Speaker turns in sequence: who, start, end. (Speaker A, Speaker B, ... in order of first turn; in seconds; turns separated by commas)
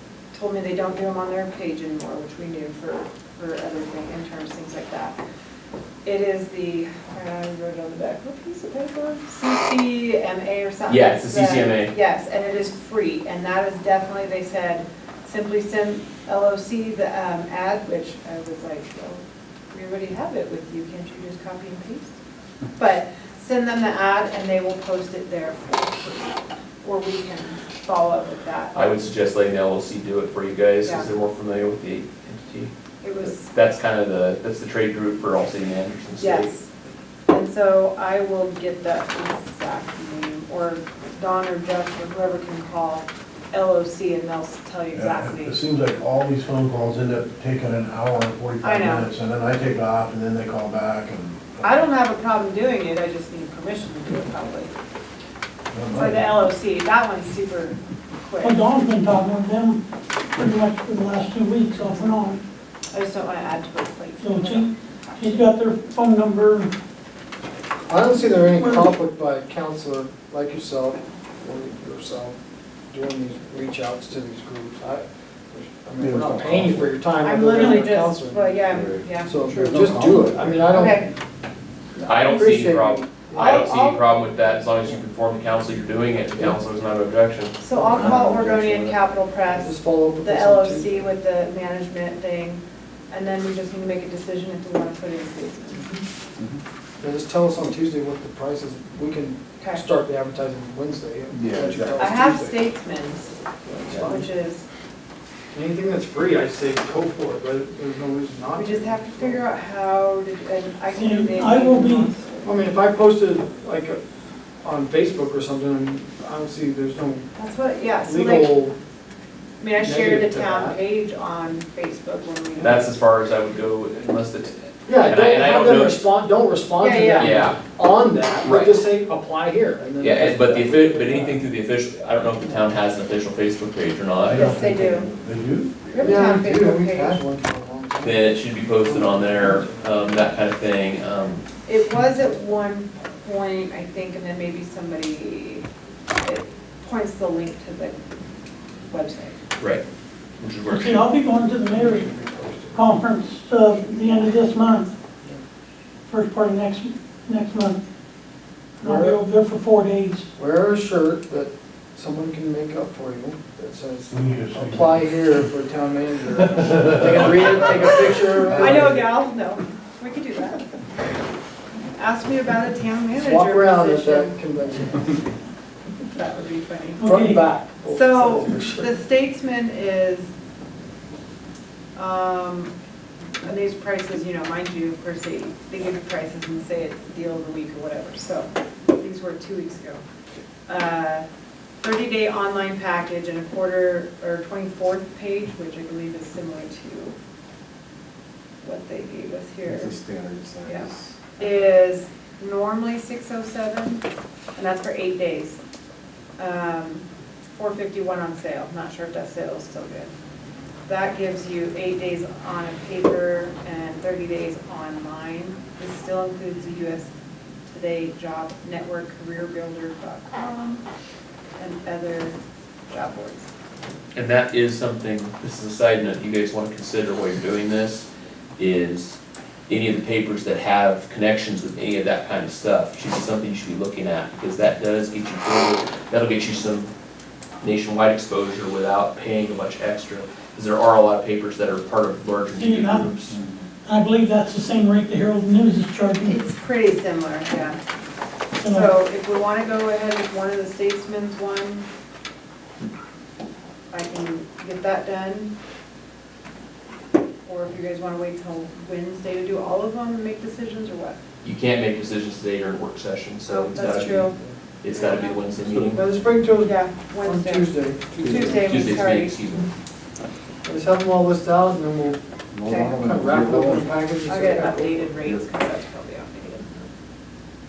Speaker A: 0.3-5.2, Speaker A: 6.0-22.2, Speaker B: 10.9-11.9, Speaker A: 22.8-28.9, Speaker B: 28.7-36.5, Speaker A: 30.8-31.1, Speaker A: 33.0-33.5, Speaker A: 36.2-36.7, Speaker A: 37.3-45.6, Speaker C: 44.9-51.9, Speaker A: 48.6-49.1, Speaker A: 51.6-54.7, Speaker C: 55.7-56.3, Speaker A: 55.9-58.7, Speaker D: 58.4-59.8, Speaker D: 60.4-62.4, Speaker A: 62.9-64.7, Speaker D: 64.2-66.7, Speaker E: 67.9-72.4, Speaker D: 68.6-68.9, Speaker E: 72.9-81.1, Speaker F: 76.0-76.9, Speaker A: 77.2-81.1, Speaker F: 78.7-79.0, Speaker F: 79.6-80.5, Speaker E: 82.0-83.5, Speaker B: 82.1-87.6, Speaker A: 83.3-84.0, Speaker A: 87.6-96.0, Speaker E: 87.7-88.4, Speaker E: 89.5-91.1, Speaker E: 97.0-102.6, Speaker F: 101.3-102.0, Speaker A: 101.9-103.3, Speaker E: 103.7-104.3, Speaker A: 104.0-104.6, Speaker E: 105.5-109.5, Speaker A: 108.5-112.5, Speaker D: 110.9-112.1, Speaker E: 112.4-114.0, Speaker E: 114.6-117.3, Speaker A: 117.4-118.5, Speaker E: 118.0-118.8, Speaker A: 119.6-122.9, Speaker E: 119.8-120.8, Speaker B: 122.6-126.1, Speaker E: 124.9-131.4, Speaker A: 126.8-127.2, Speaker B: 127.2-127.6, Speaker B: 128.4-128.8, Speaker B: 130.0-134.6, Speaker C: 134.2-136.1, Speaker A: 134.3-135.1, Speaker A: 135.9-137.2, Speaker E: 136.0-138.3, Speaker B: 138.0-141.4, Speaker E: 138.9-139.9, Speaker A: 141.7-145.7, Speaker A: 146.2-148.0, Speaker A: 148.9-149.4, Speaker B: 150.4-151.1, Speaker D: 150.7-152.1, Speaker E: 151.7-152.9, Speaker D: 152.8-154.9, Speaker D: 156.1-157.8, Speaker D: 158.8-160.2, Speaker E: 158.8-159.2, Speaker E: 160.4-169.0, Speaker C: 164.1-165.4, Speaker C: 166.4-167.8, Speaker C: 168.4-168.9, Speaker A: 168.5-170.7, Speaker A: 172.0-174.4, Speaker E: 173.1-175.2, Speaker A: 176.1-177.2, Speaker D: 177.0-177.4, Speaker E: 177.0-178.9, Speaker A: 177.9-180.3, Speaker A: 182.0-182.7, Speaker A: 183.4-190.0, Speaker A: 190.7-191.2, Speaker A: 191.8-197.2, Speaker A: 198.6-200.0, Speaker F: 199.7-200.9, Speaker A: 200.6-204.0, Speaker A: 204.6-205.6, Speaker A: 206.4-207.0, Speaker A: 207.6-210.1, Speaker A: 210.9-217.1, Speaker A: 217.7-220.8, Speaker A: 221.6-222.3, Speaker A: 222.9-223.5, Speaker B: 224.2-228.1, Speaker B: 228.6-229.2, Speaker B: 229.7-236.9, Speaker B: 237.6-243.3, Speaker D: 242.5-243.1, Speaker F: 243.3-243.6, Speaker D: 243.8-246.4, Speaker A: 246.2-247.8, Speaker D: 248.6-248.9, Speaker A: 248.6-251.9, Speaker A: 253.9-255.5, Speaker A: 257.5-261.2, Speaker B: 261.4-266.0, Speaker A: 263.5-264.4, Speaker A: 265.0-265.3, Speaker E: 265.9-268.8, Speaker A: 266.6-269.5, Speaker F: 268.2-268.6, Speaker B: 268.6-269.7, Speaker E: 270.6-275.4, Speaker F: 272.5-273.9, Speaker A: 272.7-273.1, Speaker A: 274.2-276.9